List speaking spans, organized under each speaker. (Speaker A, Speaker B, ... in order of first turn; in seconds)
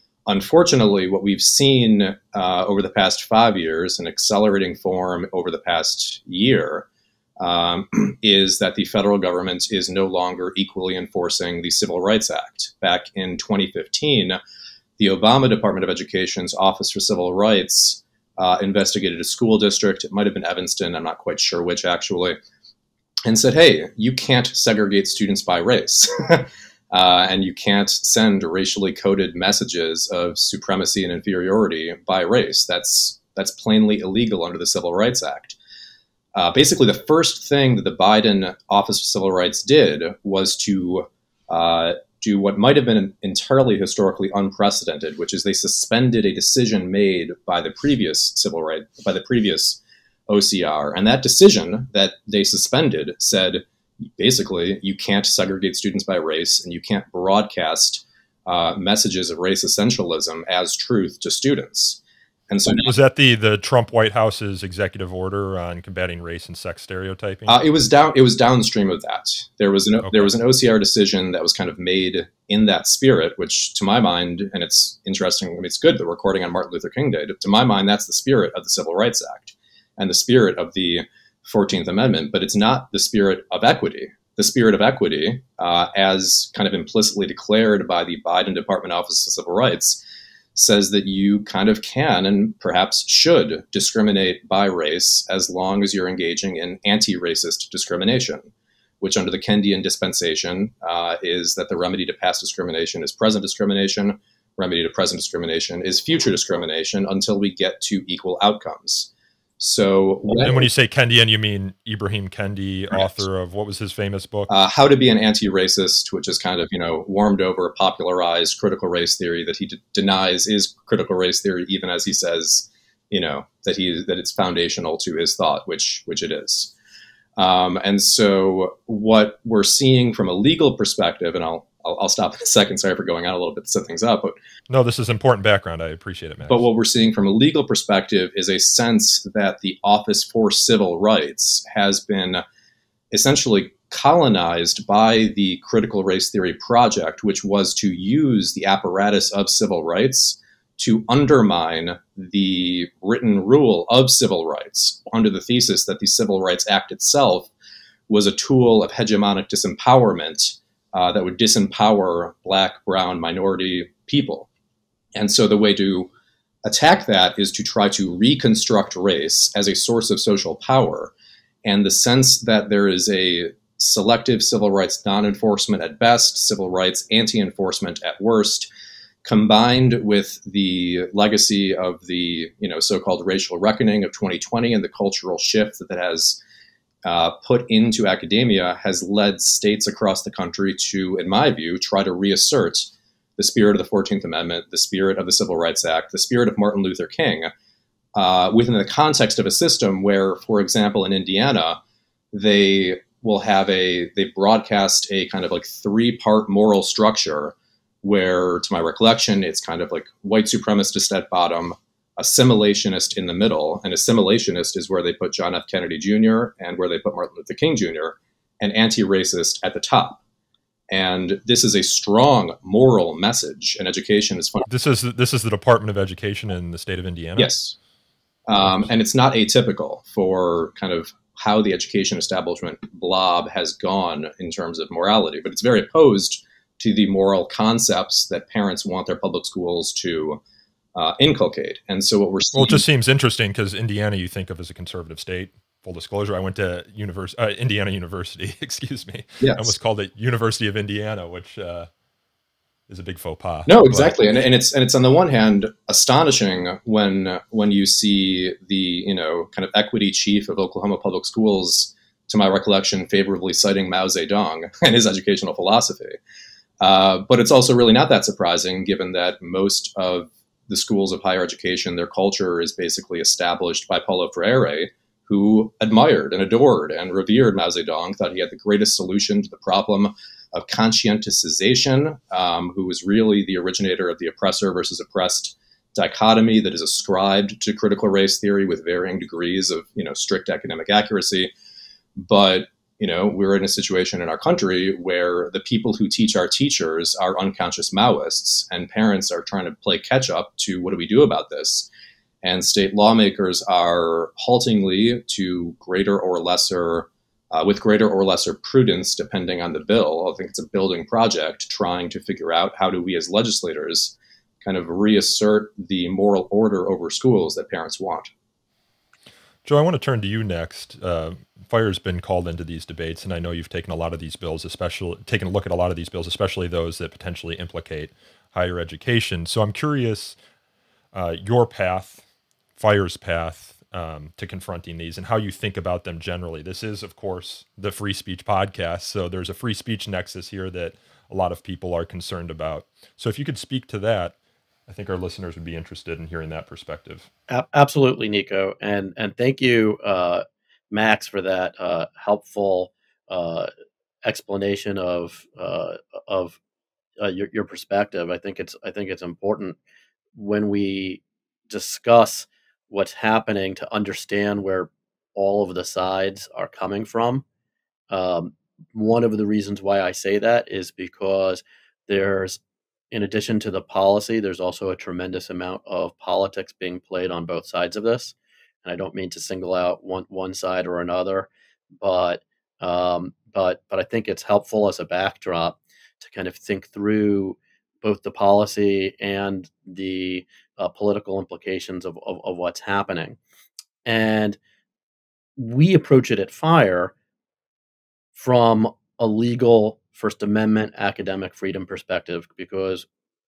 Speaker A: 0.2-6.9, 7.4-14.4, 15.0-22.4, 23.2-35.6, 36.3-62.9, 67.5-90.0, 90.5-98.5, 99.0-110.7, 114.5-126.7, 127.4-134.3, 136.5-142.4, 143.1-157.5, 158.1-164.5, 165.1-166.1, 166.6-171.1, 171.6-178.7, 179.2-186.4, 187.0-197.5, 198.1-201.8, 202.3-220.2, 220.9-224.7, 227.4-227.8, 228.5-240.4, 240.9-242.8, 249.4-249.7, 253.7-266.2, 266.8-291.5, 292.2-301.9, 302.4-318.3
Speaker B: 62.8-67.6, 70.0-70.3, 110.4-114.5, 134.7-136.6, 224.7-227.5, 228.6-228.9, 242.5-251.9, 252.9-254.2, 319.6-330.4, 331.1-332.2, 332.8-344.3, 344.9-347.3
Speaker C: 347.5-353.7, 354.2-356.6, 357.2-359.8, 360.3-367.4, 368.1-372.6, 373.1-381.5, 382.0-393.4, 394.0-394.6, 395.6-397.1, 398.3-403.1